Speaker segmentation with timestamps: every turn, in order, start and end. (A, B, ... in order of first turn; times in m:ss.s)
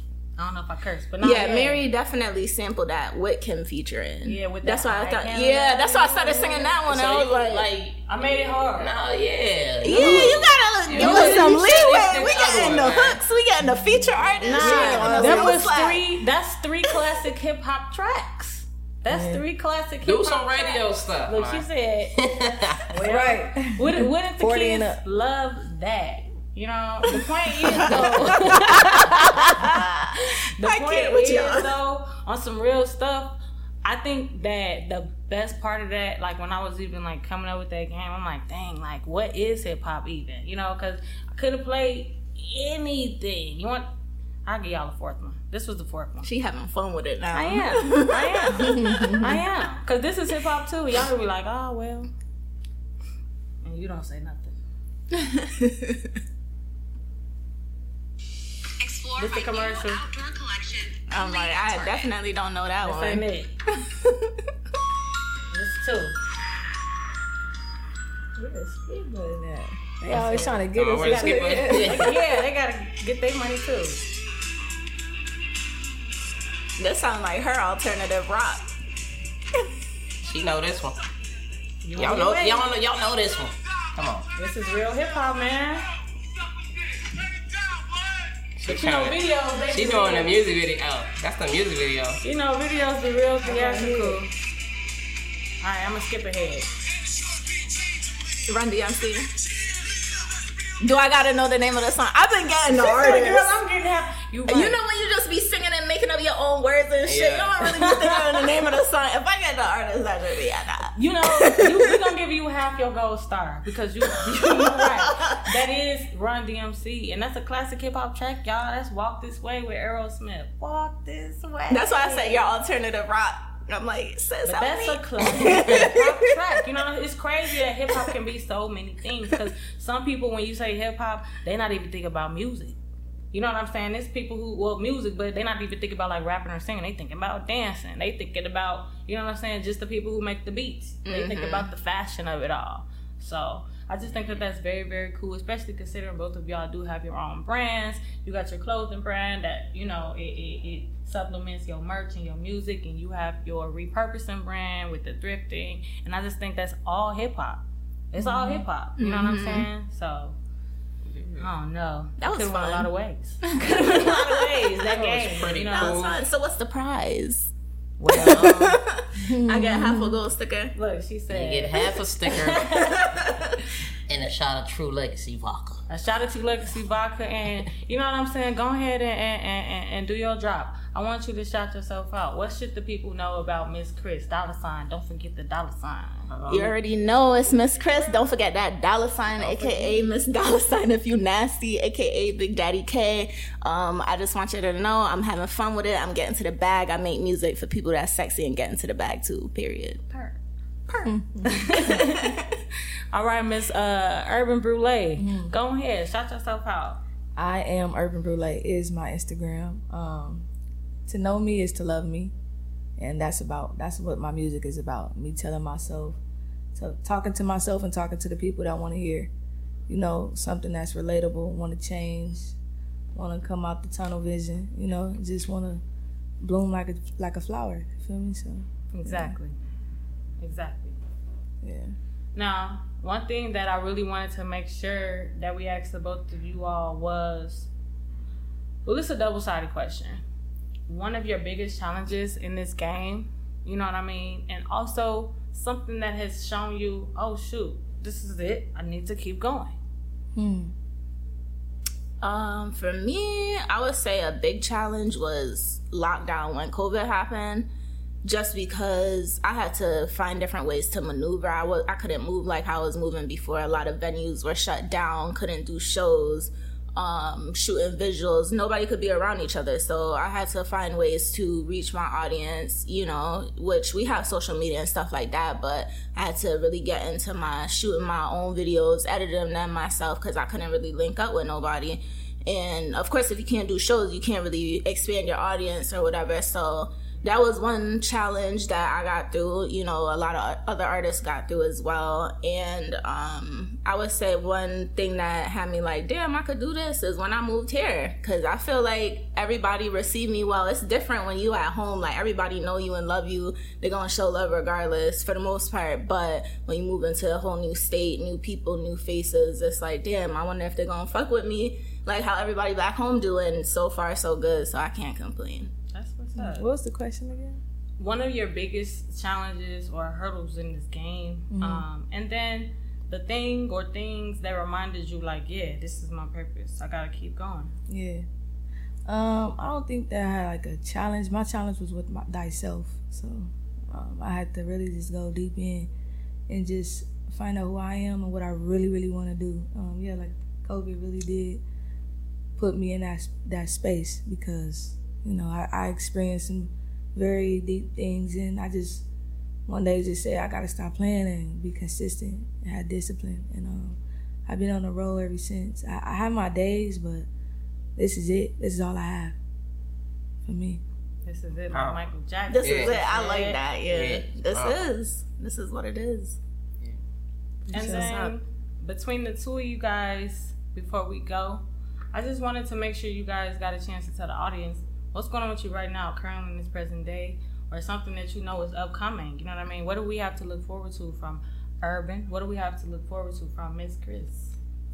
0:00.4-0:01.8 A
0:01.2-0:07.7 B
0:04.2-0:06.8 A
0:06.8-0:08.0 C
0:08.1-0:08.9 A
0:08.8-0:13.2 C
0:09.8-0:16.0 B
0:11.0-0:11.4 D
0:13.6-0:15.6 D
0:14.4-0:22.2 A
0:19.1-0:19.4 D
0:20.0-0:22.9 C
0:22.9-0:29.6 A
0:23.0-0:25.0 D
0:27.7-0:31.7 B
0:30.6-0:43.9 A
0:44.4-0:46.3 A
0:46.2-0:49.3 B
0:47.3-0:52.1 A
0:48.6-0:49.4 D
0:53.6-0:54.6 A
0:55.1-0:56.0 B
0:58.8-1:02.1 E
0:59.2-1:00.0 A
1:01.1-1:03.2 B
1:02.8-1:03.5 A
1:03.8-1:04.3 B
1:05.5-1:06.2 A
1:08.4-1:12.1 D
1:10.1-1:14.0 A
1:10.7-1:12.2 C
1:16.8-1:18.7 B
1:20.2-1:21.0 C
1:21.8-1:22.7 A
1:22.0-1:24.3 C
1:24.3-1:25.9 A
1:28.6-1:32.2 C
1:28.6-1:30.3 A
1:32.2-1:34.3 A
1:33.4-1:34.2 D
1:35.6-1:36.7 A
1:38.4-1:39.3 B
1:40.8-1:43.6 B
1:42.8-1:44.8 A
1:44.5-1:51.8 B
1:47.0-1:47.8 C
1:51.0-2:02.5 A
1:54.1-1:55.5 B
2:01.7-2:06.1 B
2:04.4-2:12.8 A
2:05.4-2:05.9 C
2:13.3-2:40.4 A
2:21.0-2:21.7 B
2:24.1-2:24.4 C
2:38.2-2:38.6 D
2:39.0-2:39.7 B
2:41.0-2:41.5 C
2:41.4-2:46.0 A
2:42.2-2:42.9 B
2:43.5-2:44.7 B
2:43.7-2:44.0 C
2:44.8-2:46.2 C
2:45.7-2:47.5 B
2:48.0-2:48.7 A
2:48.1-2:50.7 B
2:48.1-2:48.7 C
2:49.2-2:50.2 D
2:50.7-2:53.0 A
2:51.3-2:52.8 C
2:52.8-2:53.6 B
2:54.1-2:55.8 C
2:55.9-3:06.3 A
3:06.3-3:06.7 C
3:06.5-3:20.0 B
3:09.4-3:10.1 A
3:20.1-3:22.4 A
3:21.0-3:21.9 D
3:21.9-3:22.3 B
3:23.1-3:27.0 A
3:25.2-3:25.5 D
3:27.4-3:30.4 D
3:31.1-3:32.3 D
3:33.0-3:36.2 D
3:36.7-3:39.3 D
3:39.9-3:42.6 D
3:43.1-3:45.8 D
3:46.4-3:49.4 D
3:48.9-3:49.6 A
3:50.4-3:51.0 A
3:51.6-3:51.9 D
3:52.3-3:57.7 A
3:58.8-4:00.2 A
4:00.9-4:09.8 A
4:10.3-4:10.7 D
4:12.2-4:17.7 B
4:18.2-5:15.7 B
5:15.9-5:16.7 A
5:16.4-5:17.6 D
5:18.0-5:27.7 A
5:21.5-5:21.9 D
5:27.9-5:28.2 D
5:29.0-5:35.9 D
5:36.5-5:41.6 D
5:42.6-5:49.0 D
5:49.7-5:57.3 D
5:58.0-5:59.4 D
6:00.4-6:00.8 D
6:01.2-6:03.6 A
6:01.7-6:02.0 C
6:02.5-6:06.4 B
6:02.6-6:02.9 C
6:03.9-6:04.8 C
6:07.7-6:08.3 D
6:07.7-6:24.5 A